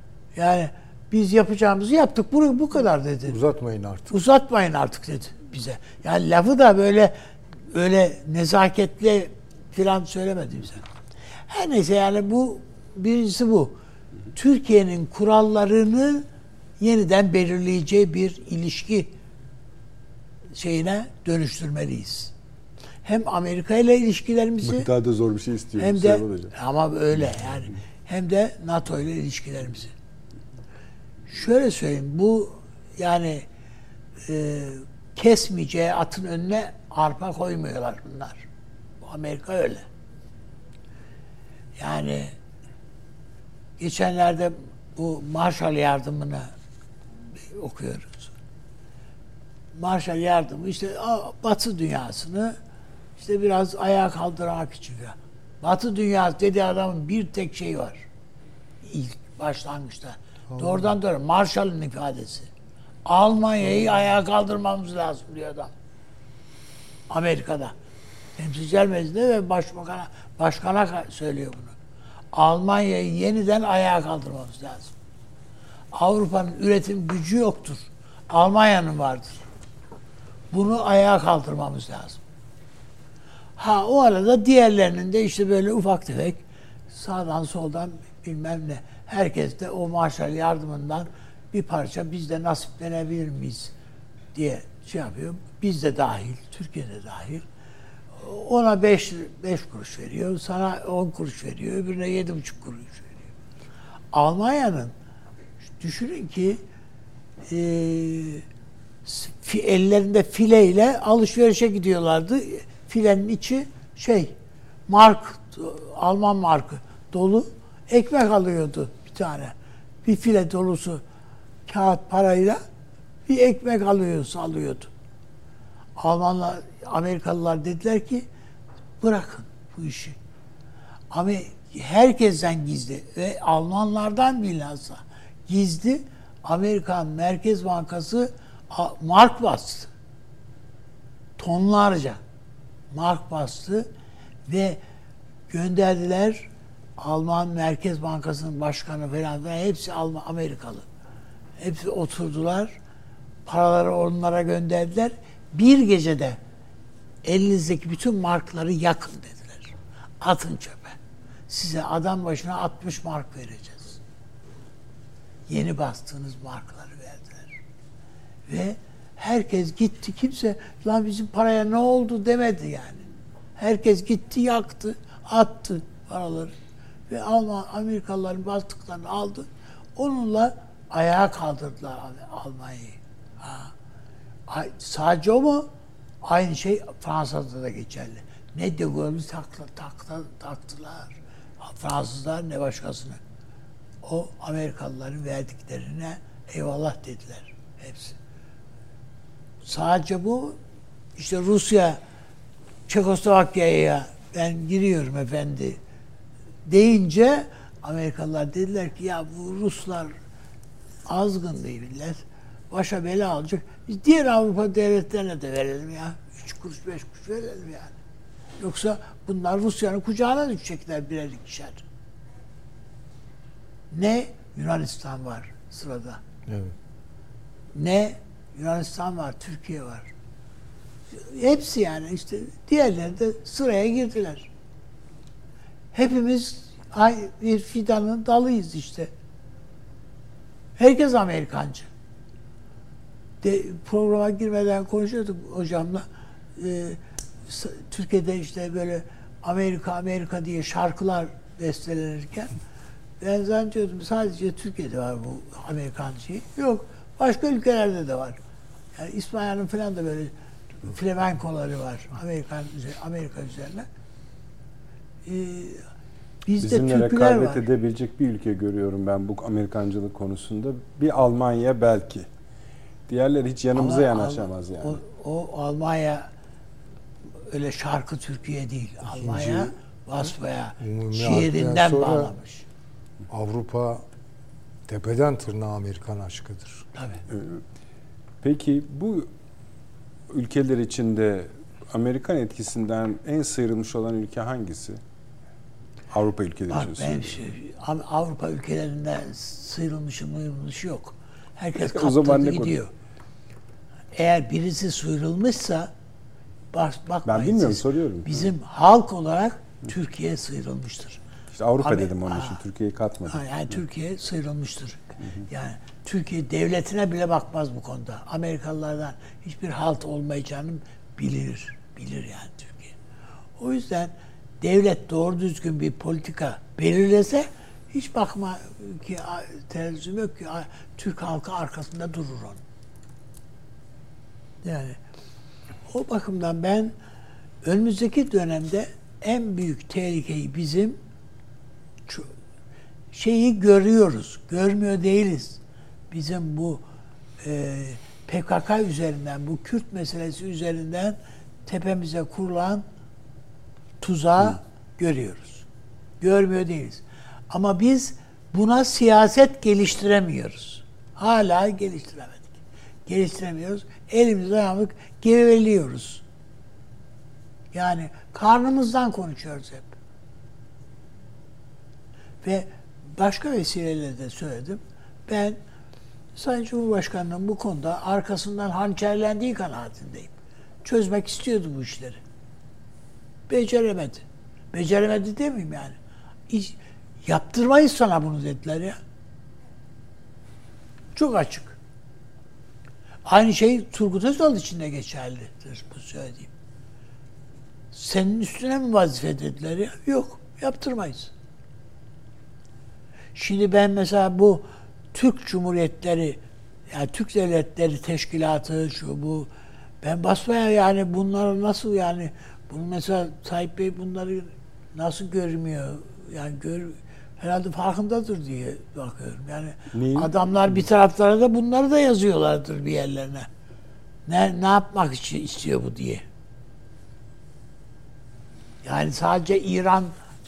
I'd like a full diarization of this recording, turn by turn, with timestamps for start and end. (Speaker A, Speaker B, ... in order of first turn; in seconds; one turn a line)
Speaker A: 0.3-3.4
Speaker B: 3.3-4.1
Speaker A: 4.1-7.1
Speaker A: 7.7-10.8
Speaker A: 11.5-13.8
Speaker A: 14.3-16.3
Speaker A: 16.8-19.1
Speaker A: 20.6-22.3
Speaker A: 23.1-24.9
Speaker C: 24.6-26.5
Speaker A: 25.8-29.9
Speaker A: 31.3-33.5
Speaker A: 34.2-38.5
Speaker A: 39.0-39.9
Speaker A: 41.8-42.3
Speaker A: 43.8-46.5
Speaker A: 47.4-48.3
Speaker A: 49.7-52.6
Speaker A: 53.2-58.1
Speaker A: 58.8-62.5
Speaker A: 63.0-65.7
Speaker A: 67.1-67.8
Speaker A: 68.4-71.8
Speaker A: 72.3-74.9
Speaker A: 75.9-79.4
Speaker A: 80.5-82.2
Speaker A: 83.6-93.7
Speaker A: 94.3-97.5
Speaker A: 98.2-103.1
Speaker A: 104.1-104.9
Speaker A: 105.8-106.6
Speaker A: 107.5-108.4
Speaker A: 109.0-114.3
Speaker A: 114.9-121.0
Speaker A: 121.7-122.6
Speaker A: 123.3-124.9
Speaker A: 126.0-128.3
Speaker A: 129.0-130.2
Speaker A: 131.1-139.9
Speaker A: 141.4-142.2
Speaker A: 142.9-143.9
Speaker A: 144.5-144.8
Speaker A: 145.5-150.9
Speaker A: 151.6-152.8
Speaker A: 153.5-156.4
Speaker A: 157.2-161.0
Speaker A: 161.5-164.0
Speaker A: 165.5-167.6
Speaker A: 168.5-176.5
Speaker A: 177.1-183.7
Speaker A: 184.5-185.7
Speaker A: 186.2-193.2
Speaker A: 194.0-198.2
Speaker A: 199.6-200.6
Speaker A: 201.2-202.0
Speaker A: 202.9-205.8
Speaker A: 206.7-210.1
Speaker A: 211.1-217.9
Speaker A: 218.6-221.8
Speaker A: 223.9-226.2
Speaker A: 227.7-230.1
Speaker A: 231.1-234.5
Speaker A: 235.9-239.1
Speaker A: 240.8-241.9
Speaker A: 243.4-252.6
Speaker A: 253.2-258.4
Speaker A: 259.0-263.9
Speaker A: 265.2-265.9
Speaker A: 266.4-267.7
Speaker C: 266.6-272.3
Speaker C: 273.1-275.0
Speaker A: 273.8-276.3
Speaker A: 277.5-282.6
Speaker B: 279.1-279.7
Speaker B: 280.8-282.3
Speaker B: 283.3-284.1
Speaker B: 284.9-286.9
Speaker A: 286.9-287.2
Speaker C: 287.3-287.6
Speaker C: 288.4-289.3
Speaker C: 290.3-295.0
Speaker C: 296.1-297.4
Speaker A: 296.7-302.9
Speaker C: 301.8-302.8
Speaker A: 304.1-305.9
Speaker A: 306.7-311.2
Speaker C: 307.2-308.5
Speaker C: 311.5-313.5
Speaker A: 311.8-312.6
Speaker A: 313.3-323.0
Speaker A: 323.6-332.6
Speaker A: 334.6-335.0
Speaker A: 335.9-336.9
Speaker A: 337.6-341.0
Speaker A: 343.1-345.6
Speaker A: 346.1-346.8
Speaker A: 347.4-352.8
Speaker A: 354.0-355.6
Speaker A: 356.2-366.2
Speaker A: 367.7-369.9
Speaker A: 372.4-375.6
Speaker A: 376.4-380.3
Speaker A: 380.9-382.2
Speaker A: 383.5-386.0
Speaker A: 386.5-389.0
Speaker A: 391.1-391.8
Speaker A: 393.3-396.5
Speaker A: 397.9-401.3
Speaker A: 403.4-409.5
Speaker A: 410.0-423.5
Speaker C: 419.9-420.7
Speaker A: 424.3-426.2
Speaker A: 428.8-430.1